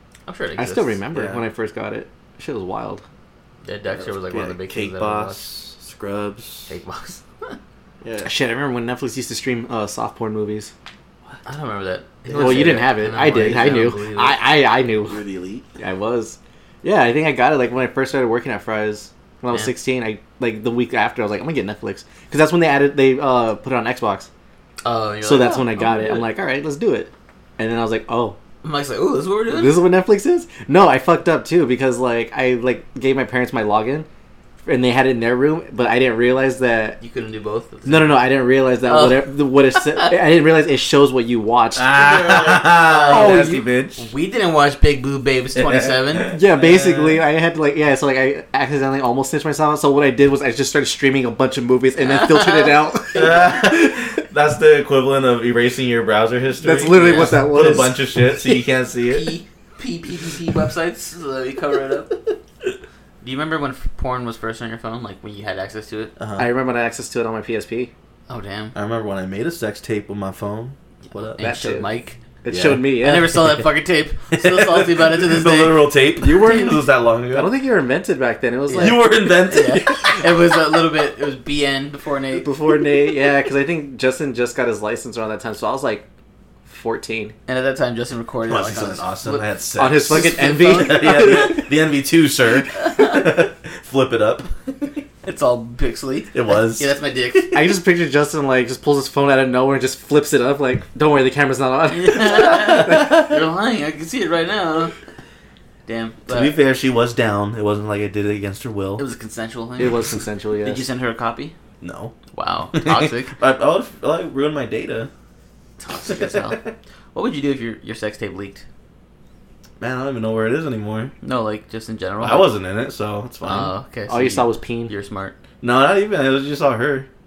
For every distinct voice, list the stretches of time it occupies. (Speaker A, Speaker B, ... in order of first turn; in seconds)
Speaker A: 0.2-1.0, 3.6-5.5, 6.7-7.6, 11.4-14.4, 24.8-26.3, 28.6-29.8, 37.0-38.2, 38.8-40.1, 41.9-46.4, 52.0-52.8, 56.9-57.5, 59.1-62.2, 63.2-66.1, 68.3-68.7, 71.1-72.2, 73.0-76.7, 78.7-82.5, 87.5-89.5, 90.1-91.5, 92.8-93.2, 95.2-97.6, 101.9-105.0, 105.8-106.6, 109.0-110.1, 110.6-111.5, 112.3-113.3, 115.8-118.6, 121.2-122.5, 123.4-125.3
Speaker B: 0.6-3.0, 8.2-10.7, 12.4-15.2, 15.8-24.3, 25.2-28.4, 29.5-34.1, 34.6-37.0, 37.9-41.9, 43.0-43.6, 46.3-53.6, 56.6-58.6, 66.4-67.9, 71.4-71.9, 72.4-73.3, 76.2-79.1, 82.4-86.0, 86.7-87.3, 89.8-91.7, 97.5-103.1, 109.8-110.8, 124.1-124.9
Speaker C: 1.1-1.4, 4.0-6.7, 8.0-8.3, 12.3-13.9, 15.1-15.7, 41.8-44.1, 45.5-47.2, 53.1-59.4, 66.2-66.5, 68.7-71.5, 72.5-73.4, 74.3-77.5, 78.8-80.3, 88.5-94.5, 96.3-96.9, 102.2-103.2, 106.3-109.0, 111.8-112.2, 112.7-115.1, 116.1-116.7, 119.8-121.1, 122.2-123.7, 125.6-127.1